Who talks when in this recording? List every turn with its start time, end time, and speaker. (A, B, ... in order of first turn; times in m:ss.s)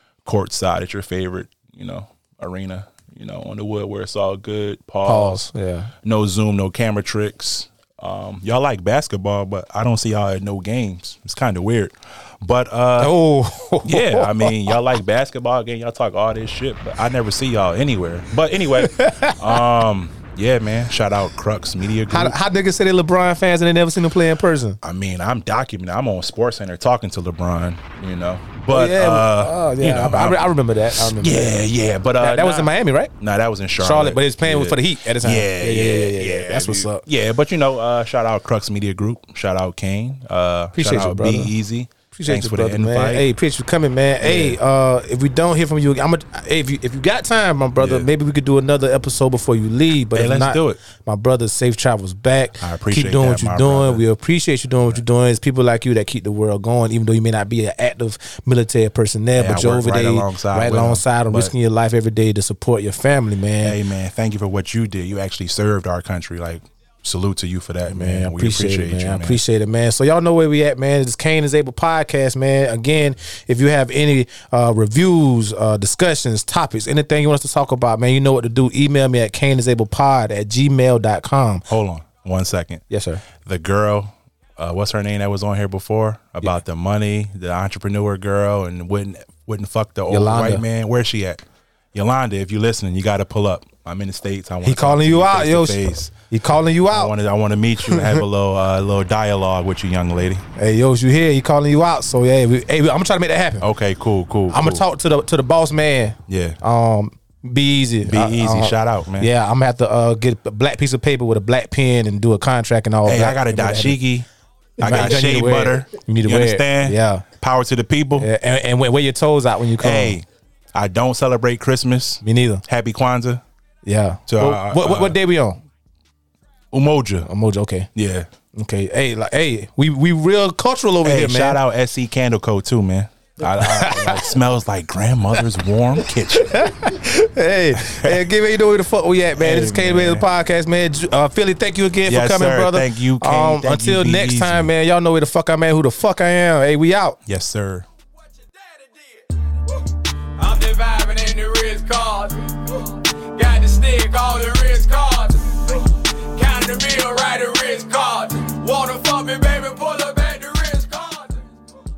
0:00.2-0:05.4 A
0:05.0-0:05.9 B
0:06.0-0:13.1 A
0:13.0-0:14.7 B
0:13.8-0:22.4 A
0:18.8-0:19.5 B
0:22.1-0:24.8 B
0:24.8-0:43.2 A
0:28.7-0:31.6 B
0:32.2-0:33.1 B
0:33.8-0:37.0 B
0:40.7-0:41.5 B
0:42.1-1:03.8 B
0:44.2-0:44.6 A
0:47.8-0:48.1 A
0:50.1-0:50.8 A
0:52.6-0:54.0 A
0:59.3-1:01.5 A
1:03.6-1:09.4 A
1:07.9-1:21.6 B
1:21.7-1:22.8 A
1:22.9-1:23.2 B
1:23.3-1:31.4 A
1:30.1-1:30.6 B
1:31.9-1:36.1 A
1:34.6-1:37.1 B
1:36.9-1:40.4 A
1:37.9-1:38.2 B
1:40.6-1:43.7 B
1:43.6-1:44.8 A
1:44.5-1:54.0 B
1:46.3-1:46.6 A
1:48.0-1:49.3 A
1:53.0-1:54.3 A
1:54.8-1:58.3 A
1:54.8-1:57.3 B
1:58.1-2:00.2 B
1:59.8-2:03.4 A
2:02.2-2:02.6 B
2:03.8-2:05.6 B
2:04.3-2:05.2 A
2:06.7-2:07.3 A
2:07.2-2:07.9 B
2:07.9-2:08.3 A
2:08.5-2:11.6 B
2:11.0-2:16.7 A
2:13.5-2:14.3 B
2:16.3-2:27.2 B
2:17.7-2:18.3 A
2:19.4-2:20.2 A
2:22.0-2:24.7 A
2:27.2-2:27.9 A
2:28.5-2:29.2 C
2:30.4-2:41.5 C